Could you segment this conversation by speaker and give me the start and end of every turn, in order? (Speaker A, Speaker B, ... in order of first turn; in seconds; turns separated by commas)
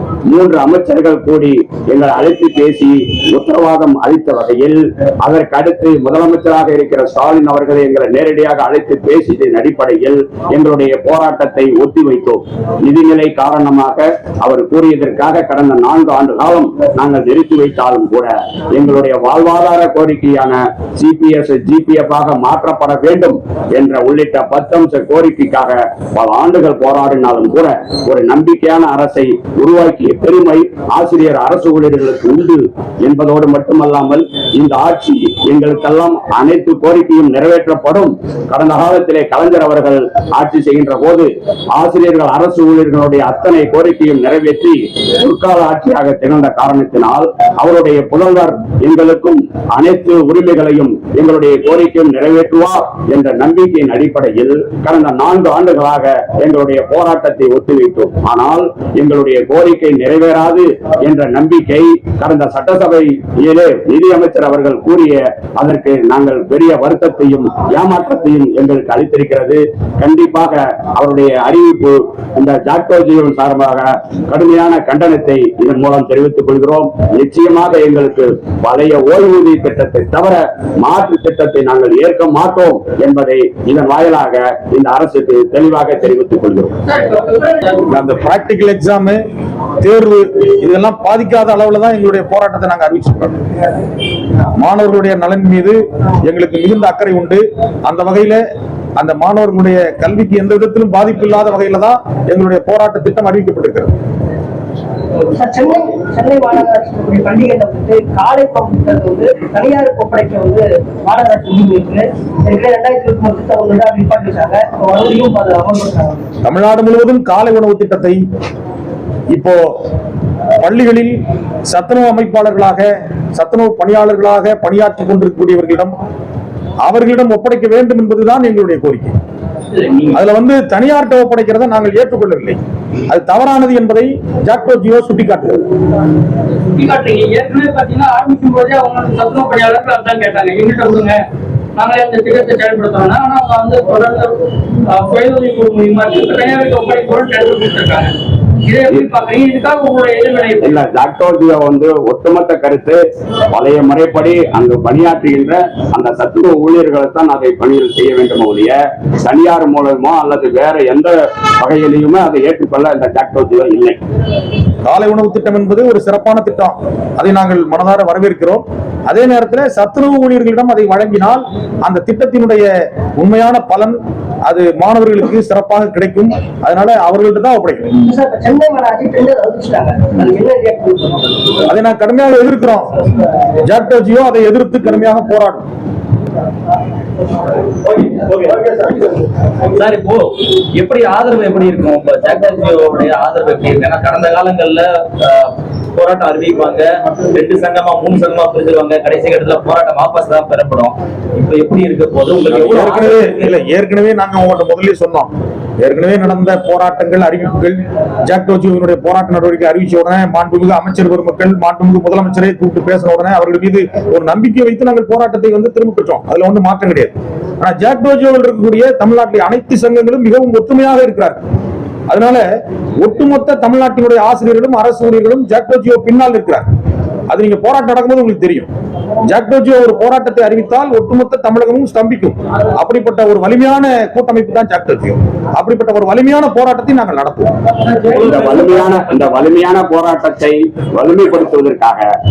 Speaker A: 0.3-86.7, Speaker B: 86.9-87.8, Speaker C: 87.9-89.2, Speaker C: 89.8-93.4, Speaker C: 94.6-98.4, Speaker C: 99.0-103.9, Speaker D: 105.3-116.2, Speaker C: 116.4-118.2, Speaker C: 119.3-119.6, Speaker C: 120.6-121.2, Speaker C: 121.7-125.9, Speaker C: 126.8-129.1, Speaker B: 129.7-130.2, Speaker C: 130.1-135.6, Speaker B: 136.7-141.2, Speaker B: 141.8-150.7, Speaker A: 150.6-164.0, Speaker C: 164.8-177.9, Speaker D: 178.0-181.6, Speaker C: 181.7-182.9, Speaker C: 183.6-185.7, Speaker E: 187.8-189.1, Speaker E: 189.7-203.5, Speaker C: 202.7-221.4, Speaker C: 222.1-222.4, Speaker C: 223.0-226.6, Speaker C: 227.3-228.7, Speaker C: 229.3-237.5, Speaker B: 237.8-239.0, Speaker A: 238.1-242.0